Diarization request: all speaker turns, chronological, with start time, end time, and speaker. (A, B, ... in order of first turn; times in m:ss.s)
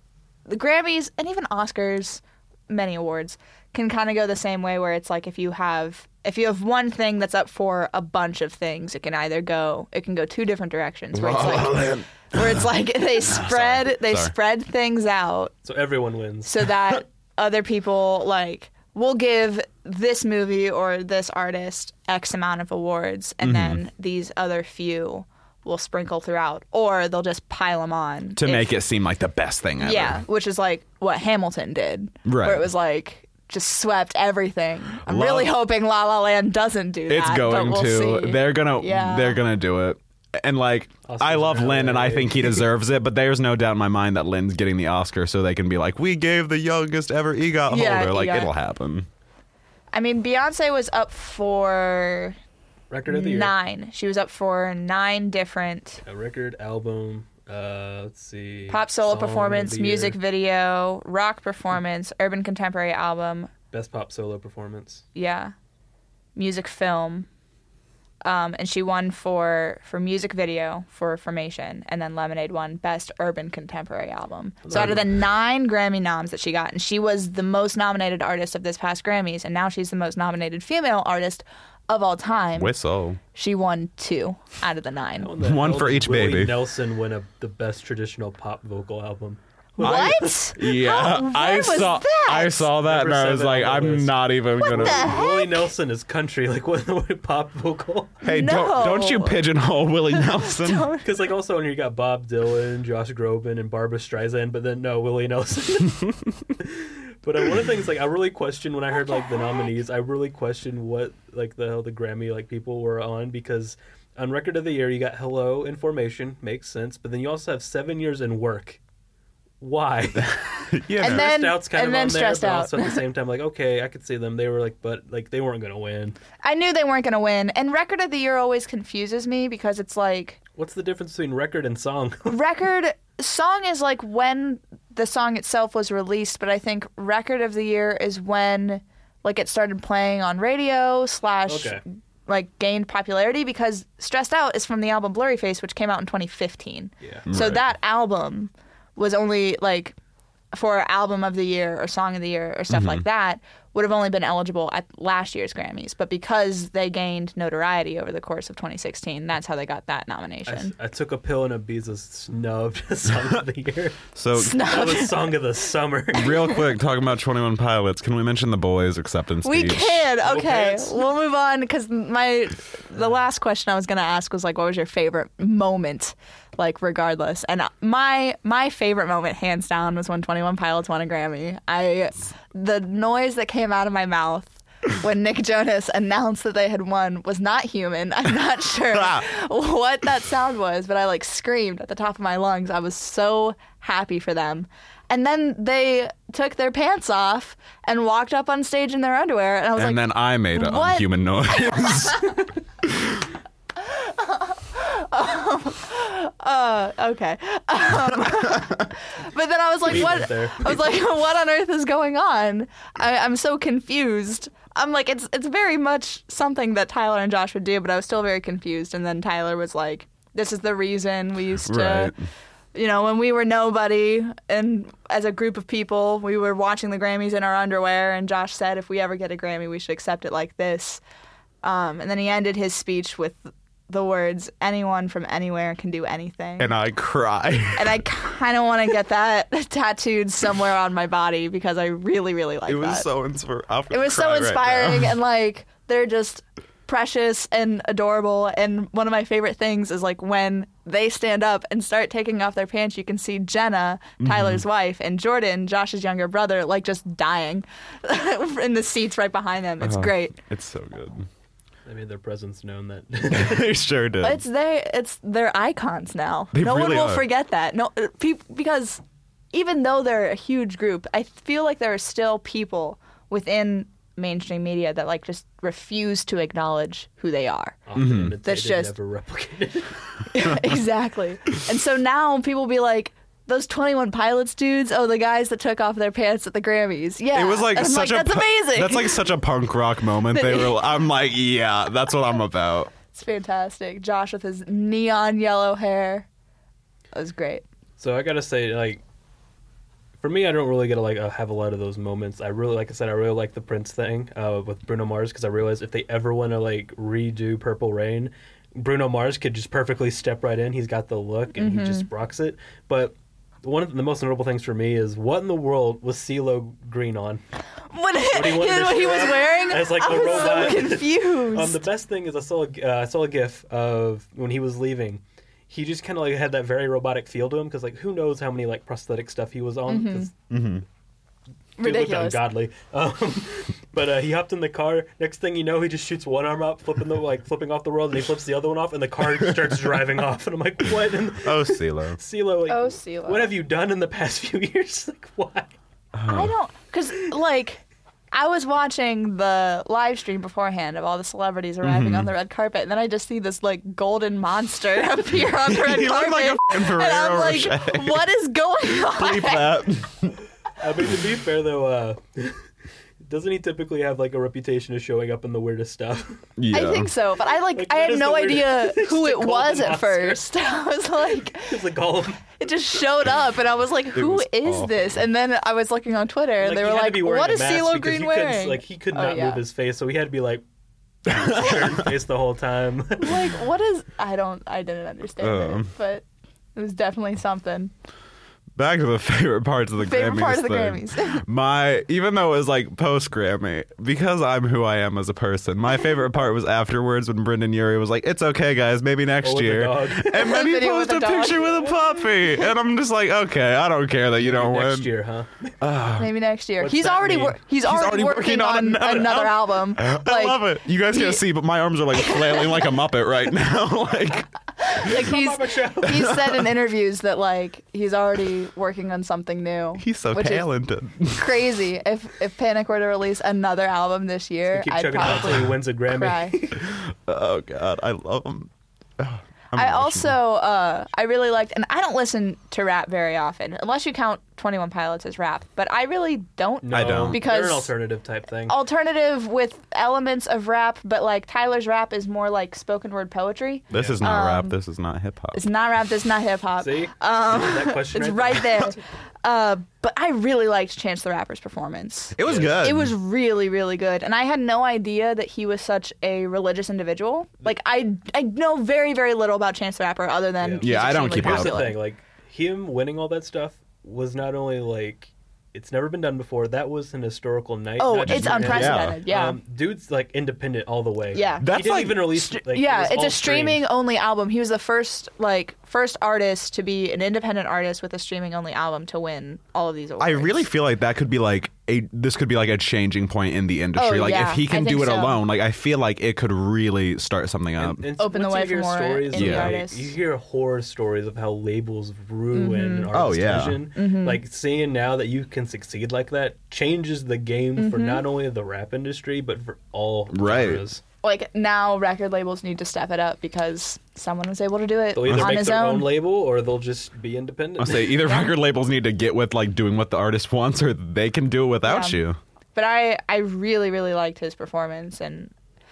0:00.5-0:15.5 A
0:11.1-0:12.7 B
0:13.2-0:14.3 B
0:15.6-0:16.5 C
0:16.4-0:28.8 A
0:23.4-0:23.8 B
0:28.4-0:30.2 B
0:29.8-0:39.4 A
0:32.2-0:32.7 B
0:35.0-0:35.5 B
0:37.1-0:49.1 B
0:41.1-0:42.6 C
0:47.7-0:48.5 A
0:49.9-0:52.4 A
0:52.9-0:53.6 C
0:53.1-0:56.0 A
0:56.0-1:00.2 C
0:58.7-1:03.5 A
1:03.7-1:05.0 C
1:05.1-1:05.5 A
1:06.4-1:07.3 A
1:08.2-1:22.7 A
1:14.7-1:15.1 C
1:22.6-1:23.2 B
1:23.3-1:25.3 A
1:25.2-1:30.5 C
1:25.4-1:26.6 B
1:29.8-1:32.7 A
1:29.8-1:35.2 B
1:32.7-1:38.2 C
1:34.6-1:35.7 A
1:38.2-1:40.9 B
1:38.3-1:39.4 A
1:40.1-1:41.1 A
1:41.0-1:58.8 C
1:49.2-1:49.6 A
1:59.6-2:06.2 C
2:00.2-2:01.3 B
2:01.0-2:03.0 A
2:06.4-2:10.4 A
2:10.6-2:12.4 C
2:12.3-2:30.0 A
2:21.5-2:21.8 C
2:27.0-2:27.3 C
2:27.3-2:27.6 B
2:30.5-2:40.7 A
2:32.7-2:33.0 B
2:40.5-2:46.6 C
2:44.2-2:44.6 B
2:44.4-2:45.2 A
2:46.1-2:50.0 B
2:49.4-3:22.5 A
2:50.2-2:51.1 C
3:08.9-3:09.3 B
3:19.8-3:23.3 B
3:23.8-3:42.1 A
3:29.9-3:30.8 C
3:41.6-3:42.2 B
3:42.7-3:51.0 A
3:51.6-3:56.7 A
3:56.6-3:58.0 B
3:57.7-4:03.1 A
4:02.7-4:05.1 B
4:03.9-4:20.4 A
4:14.2-4:14.6 B
4:19.8-4:21.3 B
4:21.9-4:23.8 C
4:23.3-4:24.4 B
4:24.2-4:29.0 A
4:26.5-4:27.2 B
4:29.5-4:37.8 A
4:37.9-4:40.0 C
4:38.0-4:38.4 B
4:38.4-4:38.9 A
4:40.3-4:49.2 A
4:47.3-4:52.9 B
4:50.3-4:50.8 A
4:53.1-4:56.3 A
4:57.1-4:57.6 A
4:58.0-4:59.0 C
5:00.2-5:17.4 C
5:11.6-5:12.1 A
5:17.9-5:21.8 A
5:18.3-5:30.3 C
5:29.9-5:30.3 A
5:30.5-5:30.8 B
5:31.8-5:32.4 A
5:31.8-5:45.7 C
5:41.4-5:42.2 B
5:42.7-5:43.5 A
5:46.2-5:46.5 B
5:46.3-5:59.8 A
5:51.8-5:52.3 B
5:55.4-5:58.2 B
5:59.1-6:00.3 B
6:00.8-6:02.6 C
6:03.2-6:06.4 C
6:06.6-6:07.1 B
6:06.7-6:11.8 A
6:07.6-6:10.4 C
6:11.5-6:12.4 C
6:12.6-6:19.6 A
6:14.1-6:15.1 B
6:16.6-6:20.6 C
6:21.3-6:22.1 B
6:21.3-6:23.6 C
6:23.2-6:27.9 A
6:25.4-6:25.9 B
6:28.8-6:45.1 B
6:30.0-6:31.4 A
6:39.4-6:40.6 C
6:40.3-6:42.7 A
6:44.4-6:45.8 C
6:45.8-6:46.3 B
6:46.2-6:51.4 A
6:46.8-6:47.6 C
6:47.8-6:54.5 B
6:52.1-6:52.9 A
6:54.8-7:00.7 A
6:55.0-6:56.4 C
7:00.0-7:01.5 B
7:01.3-7:06.6 A
7:04.7-7:06.8 C
7:06.8-7:10.4 B
7:09.8-7:17.9 A
7:16.8-7:18.8 C
7:16.9-7:17.4 B
7:18.7-7:24.8 A
7:23.9-7:25.6 B
7:23.9-7:24.2 C
7:25.5-7:42.0 A
7:26.8-7:28.9 C
7:32.4-7:33.1 B
7:32.4-7:32.8 C
7:40.6-7:53.8 C
7:40.8-7:41.8 B
7:48.0-7:49.6 A
7:48.3-7:49.2 B
7:51.3-7:51.7 A
7:51.6-7:52.4 B
7:52.3-8:00.7 A
8:00.2-8:08.0 B
8:04.0-8:05.4 A
8:07.8-8:21.0 C
8:08.2-8:10.1 A
8:09.4-8:09.8 B
8:12.5-8:13.1 A
8:13.1-8:13.8 B
8:13.9-8:14.4 A
8:17.8-8:18.2 A
8:20.3-8:20.8 B
8:21.2-8:26.1 A
8:25.2-8:28.2 C
8:25.3-8:25.6 B
8:27.8-8:32.4 B
8:28.3-8:28.5 A
8:31.8-8:32.2 A
8:32.8-8:35.5 A